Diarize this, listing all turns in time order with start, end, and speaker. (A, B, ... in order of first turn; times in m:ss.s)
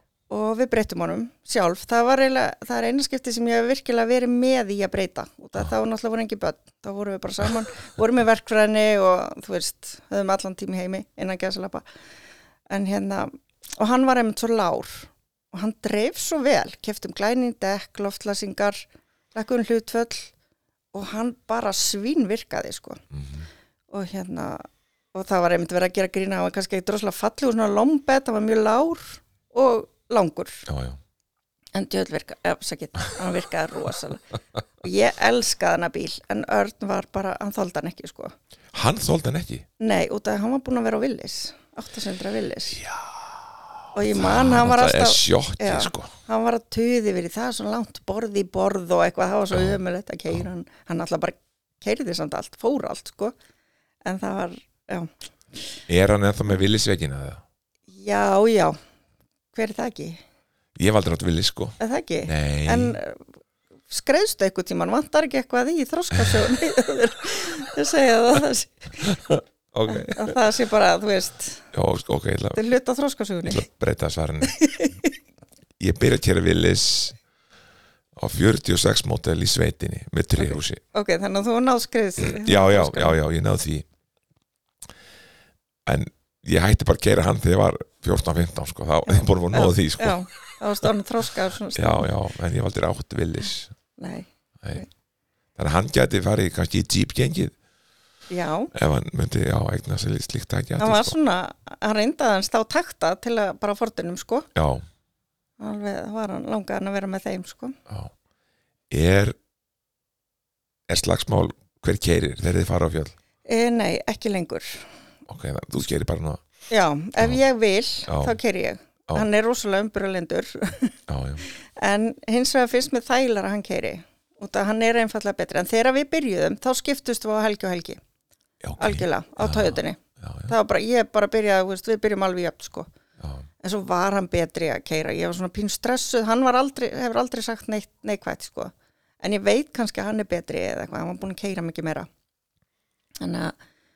0:00.3-0:11.8 A
0:12.7-0:20.3 A
0:20.9-0:23.0 A
0:23.1-0:23.5 B
0:23.9-0:30.6 A
0:30.7-0:31.0 B
0:31.7-0:34.2 A
0:34.8-0:38.3 A
0:38.7-0:39.6 B
0:39.8-0:42.8 A
0:42.8-0:43.4 B
0:43.9-0:53.3 A
0:44.0-0:46.1 B
0:49.5-0:50.4 B
0:54.0-0:55.8 A
0:55.9-0:57.4 B
0:57.9-0:58.8 A
0:59.5-1:00.2 A
1:00.8-1:03.0 B
1:01.8-1:03.2 A
1:03.9-1:09.1 A
1:06.2-1:06.5 B
1:09.0-1:10.4 B
1:09.9-1:11.7 A
1:11.7-1:12.6 B
1:12.5-1:13.6 A
1:13.4-1:14.6 B
1:14.4-1:15.1 A
1:15.8-1:17.2 B
1:18.2-1:20.8 B
1:20.4-1:23.2 A
1:22.2-1:23.8 B
1:25.8-1:30.3 B
1:29.1-1:32.1 A
1:31.7-1:33.7 B
1:34.0-1:34.9 A
1:35.6-1:37.6 B
1:38.3-1:38.7 A
1:38.7-1:41.2 B
1:40.8-1:44.5 A
1:44.5-1:44.8 B
1:45.6-1:47.8 A
1:47.9-1:48.1 B
1:48.9-1:49.4 B
1:50.9-1:53.1 B
1:53.4-1:54.9 A
1:55.3-1:56.4 B
1:56.7-2:01.0 A
1:58.1-1:58.4 B
2:01.1-2:01.4 B
2:01.5-2:08.0 A
2:08.6-2:10.5 B
2:08.8-2:12.9 A
2:13.2-2:13.5 B
2:13.6-2:22.1 A
2:23.2-2:23.5 A